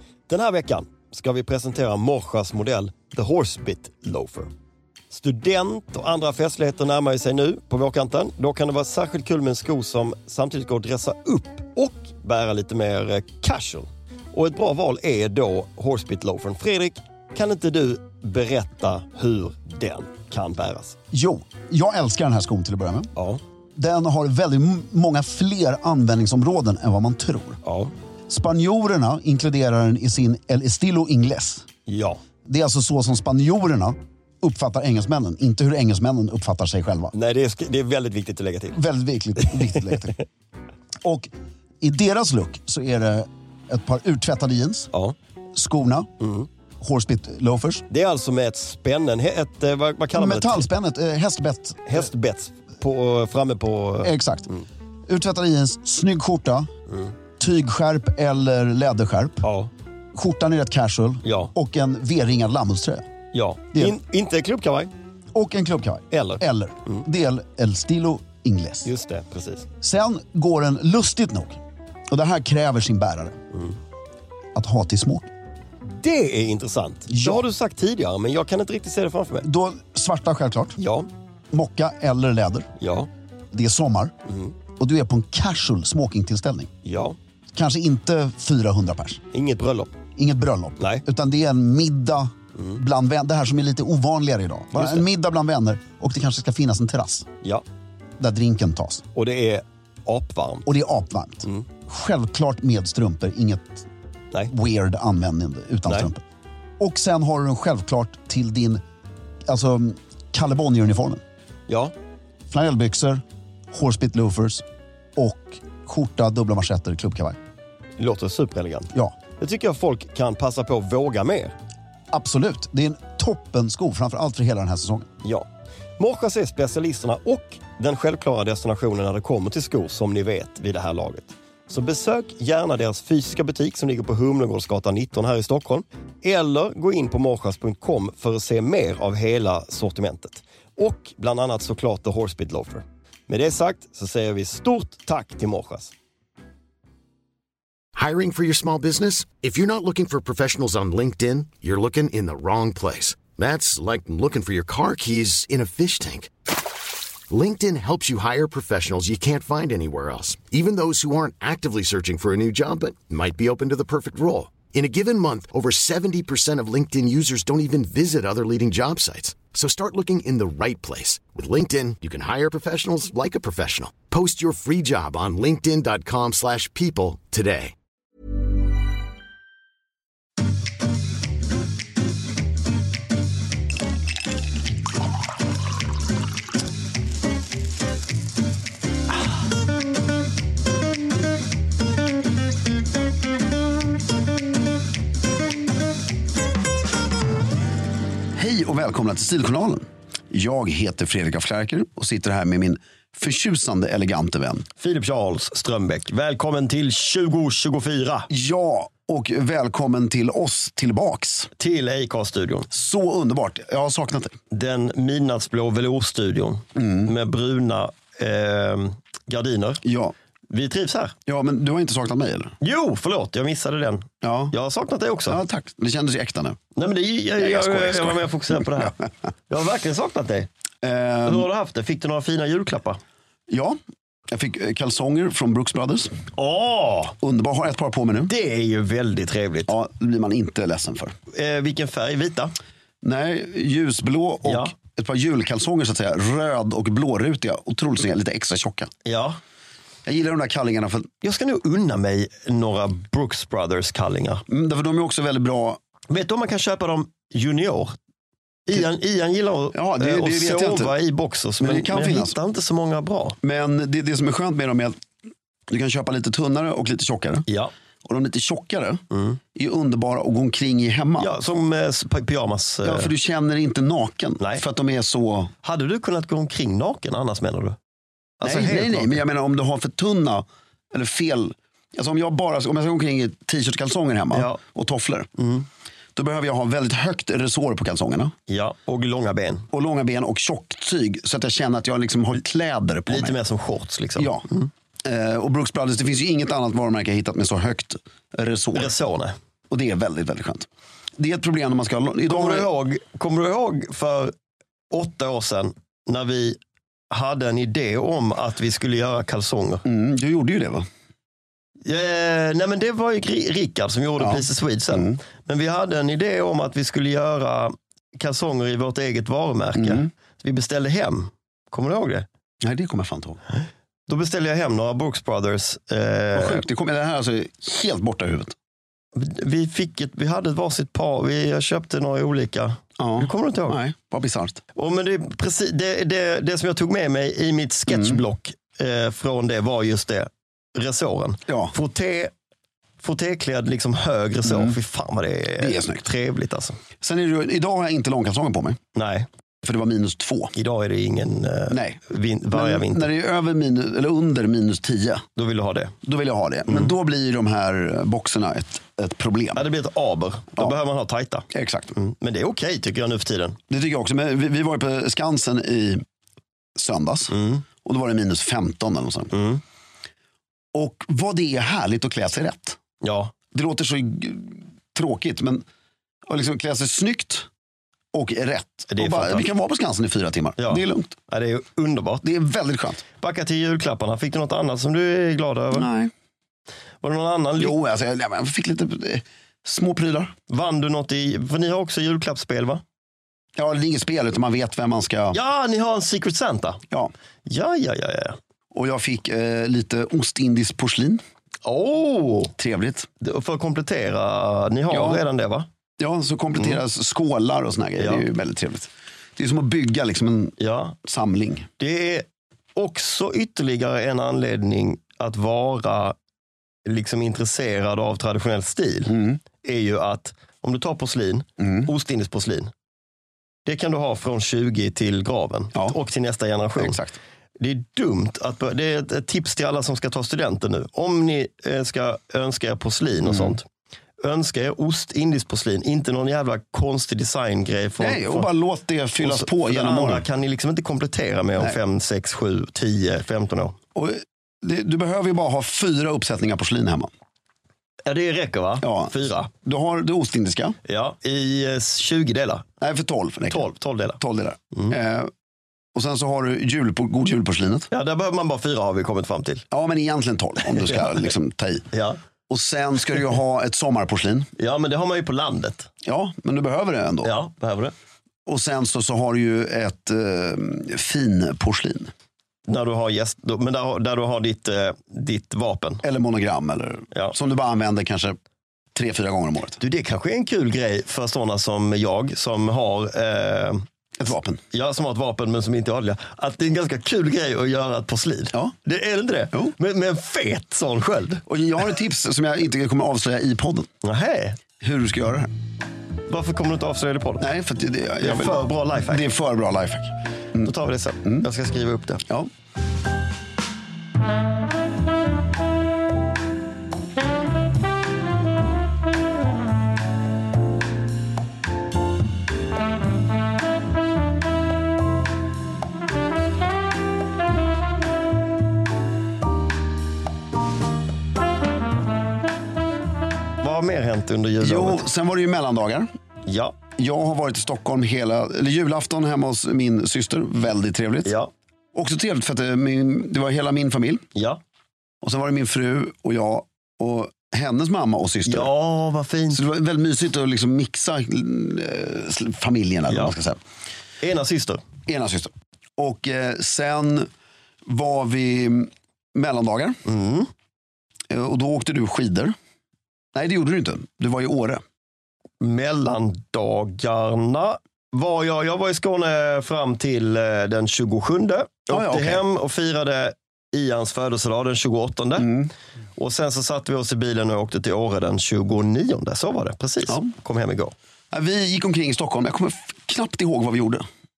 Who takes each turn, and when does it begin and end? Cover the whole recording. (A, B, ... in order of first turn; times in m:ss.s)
0:00.3-0:04.5 A
0:05.1-0:21.0 A
0:21.1-0:23.1 B
0:23.2-0:23.4 A
0:23.8-0:27.6 B
0:27.6-0:27.9 A
0:28.3-0:31.7 B
0:31.9-0:32.2 A
0:32.4-0:37.1 B
0:37.1-0:38.8 A
0:38.7-0:40.2 B
0:41.0-0:44.9 B
0:45.6-0:46.1 B
0:46.2-0:46.5 A
0:46.8-0:47.8 B
0:47.9-0:50.7 A
0:50.1-0:52.0 B
0:51.9-0:54.6 A
0:54.0-0:54.5 B
0:55.1-0:56.7 B
0:57.4-0:59.5 B
0:59.4-0:59.7 A
1:00.2-1:03.1 B
1:01.2-1:01.5 A
1:03.3-1:04.9 A
1:05.3-1:08.9 B
1:06.1-1:06.4 A
1:08.8-1:09.7 A
1:09.8-1:13.4 B
1:14.5-1:15.3 B
1:15.9-1:19.5 A
1:17.1-1:17.4 B
1:19.4-1:20.8 B
1:20.8-1:21.1 A
1:21.5-1:22.7 B
1:22.8-1:23.1 A
1:23.5-1:24.2 B
1:24.8-1:26.7 B
1:26.8-1:27.2 A
1:27.5-1:29.2 B
1:29.3-1:29.9 A
1:30.2-1:37.3 B
1:34.8-1:35.0 A
1:38.2-1:39.0 B
1:39.2-1:40.7 A
1:40.7-1:43.8 B
1:44.5-1:46.2 B
1:46.8-1:48.8 B
1:49.5-1:51.2 B
1:52.5-1:54.6 B
1:55.2-1:57.4 B
1:58.0-2:01.5 A
2:02.1-2:05.1 B
2:06.0-2:25.9 A
2:27.9-2:36.3 C
2:37.3-2:57.8 C
3:18.3-3:24.7 B
3:24.8-3:28.3 A
3:28.3-3:31.5 B
3:31.6-3:32.7 A
3:32.7-3:34.4 B
3:34.5-3:39.8 A
3:36.8-3:37.1 B
3:39.8-3:40.1 B
3:40.5-3:41.1 A
3:41.3-3:42.6 B
3:42.6-3:45.4 A
3:44.2-3:44.5 B
3:45.3-3:46.6 B
3:46.8-3:49.0 A
3:47.4-3:48.9 B
3:49.5-3:50.5 A
3:50.8-3:51.5 B
3:51.2-3:53.0 A
3:53.5-3:56.2 B
3:56.3-3:57.2 A
3:57.2-3:58.3 B
3:58.3-3:59.7 A
3:59.7-4:01.2 B
4:01.3-4:02.5 A
4:03.0-4:08.9 B
4:04.4-4:04.7 A
4:09.0-4:09.4 A
4:10.0-4:11.1 B
4:11.2-4:14.4 A
4:14.5-4:15.8 B
4:16.1-4:17.9 A
4:18.7-4:23.4 A
4:19.7-4:20.9 B
4:21.6-4:22.4 B
4:23.4-4:25.0 B
4:25.7-4:27.5 B
4:28.0-4:29.0 B
4:29.1-4:29.4 A
4:29.5-4:31.3 B
4:31.2-4:33.1 A
4:32.8-4:35.5 B
4:35.6-4:37.8 A
4:38.4-4:39.2 A
4:38.4-4:45.3 B
4:44.3-4:44.6 A
4:45.4-4:45.7 A
4:46.2-4:48.3 B
4:48.5-4:49.6 A
4:49.7-4:53.4 B
4:53.1-4:54.7 A
4:54.2-4:54.5 B
4:55.0-4:58.9 B
4:58.8-4:59.3 A
4:59.7-5:02.7 B
5:02.3-5:04.3 A
5:04.9-5:06.6 A
5:07.1-5:09.8 A
5:09.8-5:10.9 B
5:11.8-5:22.2 A
5:14.2-5:15.2 B
5:19.8-5:20.1 B
5:22.6-5:23.4 B
5:24.1-5:26.6 A
5:26.3-5:28.6 B
5:29.2-5:33.8 A
5:33.0-5:34.6 B
5:34.8-5:42.3 A
5:37.9-5:38.2 B
5:41.5-5:41.8 B
5:43.0-5:46.8 A
5:44.4-5:44.8 B
5:45.6-5:46.0 B
5:47.0-5:48.8 B
5:48.9-5:49.3 A
5:49.6-5:50.5 B
5:50.6-5:53.1 A
5:51.7-5:52.0 B
5:52.5-5:55.2 B
5:55.4-5:55.9 A
5:56.0-5:59.6 B
5:59.6-6:03.6 A
6:01.5-6:01.9 B
6:03.7-6:06.0 B
6:06.8-6:09.4 B
6:07.3-6:07.6 A
6:09.3-6:09.6 A
6:10.7-6:12.8 B
6:13.0-6:13.3 A
6:13.5-6:15.6 B
6:16.3-6:17.5 B
6:18.1-6:21.2 B
6:18.9-6:19.4 A
6:20.6-6:22.2 A
6:22.2-6:23.0 B
6:23.2-6:25.9 A
6:25.7-6:26.1 B
6:27.0-6:27.8 A
6:27.6-6:30.4 B
6:30.5-6:32.8 A
6:33.6-6:35.4 B
6:35.3-6:36.8 A
6:37.5-6:38.4 A
6:38.7-6:41.2 B
6:41.6-6:42.5 A
6:42.6-6:43.1 B
6:43.2-6:45.7 A
6:44.9-6:45.2 B
6:46.0-6:51.7 B
6:48.0-6:48.2 A
6:50.6-6:51.0 A
6:51.8-6:56.2 A
6:56.8-7:02.7 A
6:59.1-6:59.4 B
7:01.6-7:01.9 B
7:03.7-7:07.0 A
7:06.8-7:07.2 B
7:07.6-7:13.6 A
7:13.2-7:13.6 B
7:14.2-7:18.5 A
7:18.0-7:20.2 B
7:19.2-7:23.8 A
7:23.9-7:27.1 B
7:28.0-7:29.5 A
7:28.8-7:30.8 B
7:30.8-7:32.7 A
7:32.8-7:35.3 B
7:33.5-7:34.2 A
7:35.9-7:37.9 B
7:37.9-7:39.6 A
7:39.7-7:41.9 B
7:41.9-7:42.2 A
7:42.5-7:44.5 B
7:44.6-7:45.9 A
7:46.0-7:47.3 B
7:47.2-7:47.9 A
7:48.5-7:52.1 B
7:52.7-7:56.0 A
7:56.0-7:58.4 B
7:58.9-7:59.8 B
7:59.8-8:03.8 A
8:04.2-8:04.6 B
8:04.7-8:11.4 A
8:11.5-8:13.9 B
8:14.0-8:14.6 A
8:14.8-8:15.5 B
8:16.3-8:17.5 A
8:17.4-8:20.7 B
8:18.2-8:19.2 A
8:20.6-8:22.2 A
8:43.6-8:45.0 A
8:44.6-8:46.1 B
8:46.4-8:46.8 A
8:47.0-8:51.4 B
8:51.9-8:54.2 B
8:54.3-8:54.6 A
8:55.2-8:58.7 B
8:58.4-8:59.6 A
8:59.5-9:03.6 B
9:03.1-9:03.3 A
9:04.2-9:04.8 A
9:05.1-9:07.3 B
9:07.9-9:10.0 B
9:10.0-9:10.5 A
9:11.3-9:12.5 B
9:13.3-9:14.8 B
9:15.6-9:25.5 A
9:21.9-9:22.4 B
9:25.4-9:25.7 B
9:26.2-9:30.9 A
9:31.3-9:34.0 B